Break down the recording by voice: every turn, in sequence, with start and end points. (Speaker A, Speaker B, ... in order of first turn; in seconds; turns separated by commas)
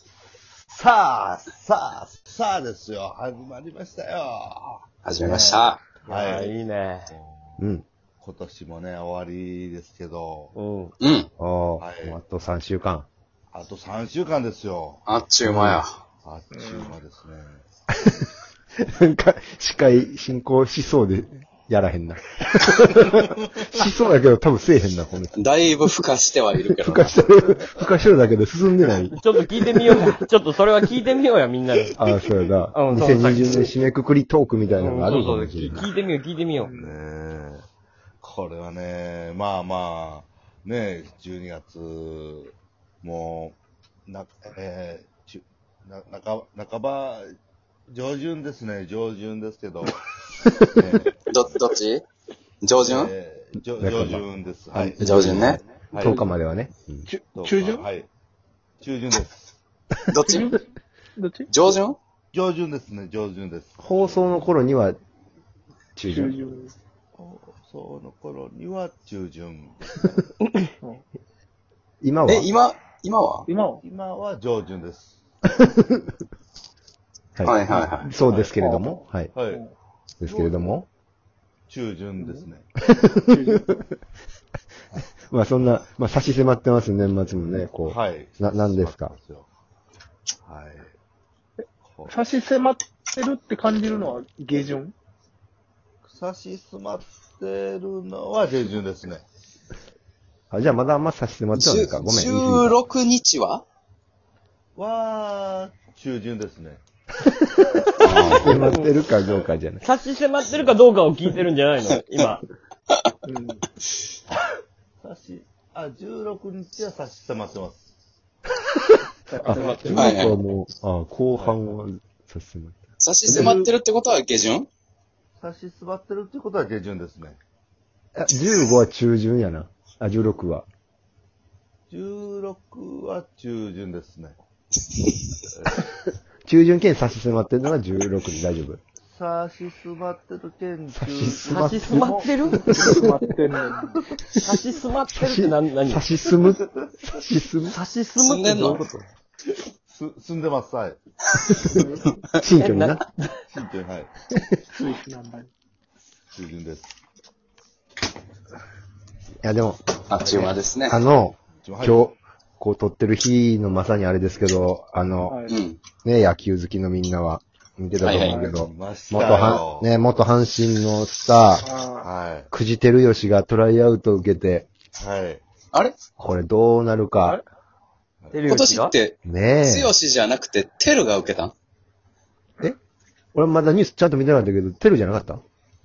Speaker A: 0.7-6.5, Speaker B: 5.0-5.8, Speaker C: 6.0-7.1, Speaker A: 7.1-7.6, Speaker D: 7.6-7.8, Speaker A: 8.2-10.5, Speaker C: 10.5-10.9, Speaker B: 11.0-11.3, Speaker D: 11.4-13.1, Speaker A: 11.8-12.2, Speaker A: 13.5-15.0, Speaker B: 15.1-15.9, Speaker D: 15.4-15.8, Speaker A: 16.2-17.6, Speaker E: 16.5-17.0, Speaker D: 18.8-25.4, Speaker B: 25.3-27.1, Speaker D: 26.8-29.2, Speaker C: 29.2-32.0, Speaker D: 29.8-30.1, Speaker D: 31.9-35.9, Speaker C: 32.7-33.7, Speaker C: 34.8-36.7, Speaker E: 36.6-37.0, Speaker A: 36.8-37.6, Speaker A: 38.2-47.3, Speaker A: 47.9-50.0, Speaker D: 50.4-50.8, Speaker A: 50.7-51.5, Speaker B: 51.3-52.0, Speaker B: 52.6-53.1, Speaker A: 52.8-56.2, Speaker D: 53.8-57.1, Speaker B: 55.0-55.6, Speaker E: 56.0-56.3, Speaker E: 57.0-57.9, Speaker A: 57.3-58.1, Speaker A: 58.8-59.4, Speaker B: 60.1-60.5, Speaker E: 60.2-60.6, Speaker E: 61.1-61.5, Speaker B: 61.5-62.0, Speaker A: 62.3-64.5, Speaker D: 63.8-65.0, Speaker D: 66.0-66.4, Speaker E: 66.0-66.7, Speaker A: 67.1-70.2, Speaker E: 70.8-71.0, Speaker D: 72.0-72.5, Speaker B: 72.2-73.5, Speaker E: 73.5-73.8, Speaker A: 73.8-75.2, Speaker D: 75.6-76.1, Speaker D: 77.3-79.3, Speaker B: 77.4-78.1, Speaker E: 77.9-79.7, Speaker A: 79.3-79.6, Speaker D: 80.2-80.9, Speaker A: 80.2-80.8, Speaker A: 81.7-82.7, Speaker E: 82.2-82.5, Speaker D: 82.9-83.8, Speaker E: 83.2-83.7, Speaker D: 85.3-89.1, Speaker A: 87.8-89.5, Speaker A: 90.4-90.9, Speaker A: 91.8-92.3, Speaker E: 92.1-94.9, Speaker A: 96.0-99.2, Speaker D: 100.5-102.7, Speaker B: 101.5-103.6, Speaker A: 104.8-106.8, Speaker D: 107.2-109.8, Speaker B: 108.0-108.7, Speaker C: 109.8-112.4, Speaker E: 113.2-113.6, Speaker A: 115.0-117.9, Speaker E: 119.3-120.2, Speaker D: 119.4-123.6, Speaker B: 119.9-120.4, Speaker B: 123.0-124.7, Speaker A: 125.4-127.4, Speaker D: 128.2-130.7, Speaker A: 131.9-134.4, Speaker A: 135.5-135.8, Speaker D: 136.4-138.8, Speaker A: 139.0-142.6, Speaker D: 140.9-143.2, Speaker C: 141.5-142.8, Speaker E: 142.6-144.0, Speaker C: 144.4-146.0, Speaker D: 145.1-147.8, Speaker C: 147.6-148.8, Speaker B: 148.2-149.0, Speaker A: 148.6-148.8, Speaker A: 149.9-151.0, Speaker D: 151.5-153.0, Speaker E: 151.6-152.0, Speaker C: 152.6-153.3, Speaker A: 153.5-154.1, Speaker E: 154.7-155.5, Speaker A: 156.3-156.9, Speaker D: 159.4-165.4, Speaker B: 160.1-161.0, Speaker A: 161.6-162.1, Speaker E: 165.3-165.6, Speaker B: 165.5-165.8, Speaker D: 166.0-171.7, Speaker B: 168.0-168.4, Speaker E: 168.2-168.5, Speaker A: 168.5-169.9, Speaker E: 171.6-172.1, Speaker A: 172.0-172.5, Speaker D: 172.5-174.7, Speaker A: 174.9-175.4, Speaker D: 176.2-177.4, Speaker C: 178.3-178.9, Speaker B: 178.4-181.5, Speaker D: 179.2-179.9, Speaker D: 183.3-185.4